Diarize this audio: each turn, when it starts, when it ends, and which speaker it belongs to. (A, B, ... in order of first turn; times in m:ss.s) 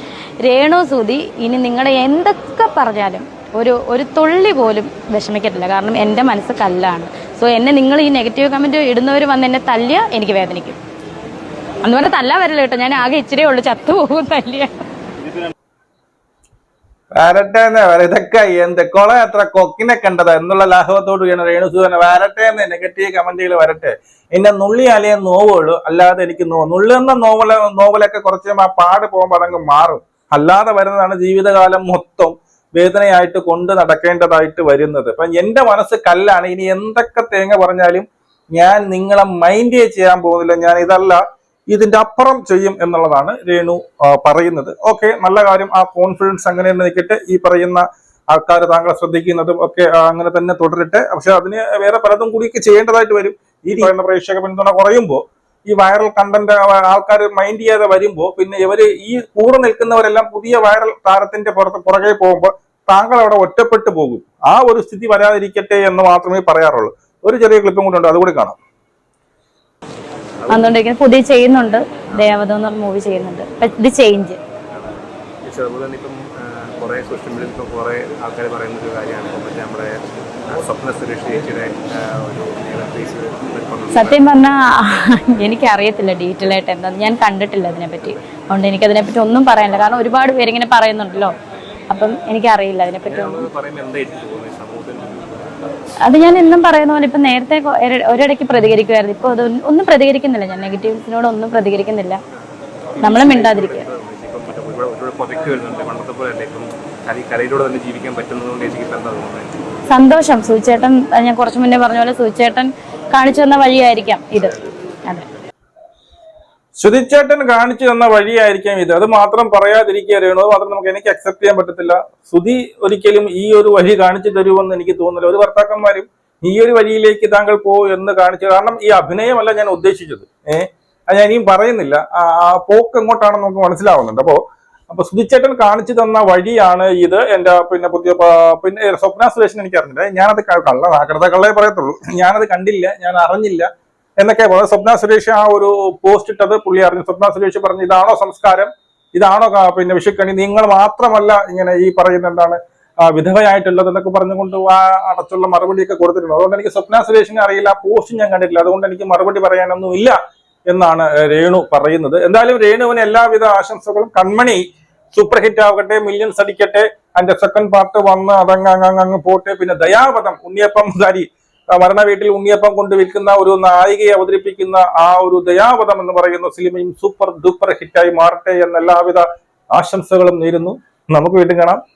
0:00.4-0:10.8 A
0:11.8-0:14.7 A
0:17.2-1:08.6 B
1:10.4-1:10.8 C
1:10.5-1:14.4 A
1:14.7-1:19.9 C
1:20.5-1:24.3 C
1:23.9-1:31.3 A
1:31.9-1:33.5 A
1:33.0-1:35.5 C
1:36.0-1:42.2 A
1:43.0-1:49.5 C
1:43.0-1:43.8 A
1:49.9-1:55.2 A
1:56.8-2:23.7 B
2:24.2-2:40.2 B
2:40.7-2:44.6 B
2:45.1-3:01.8 B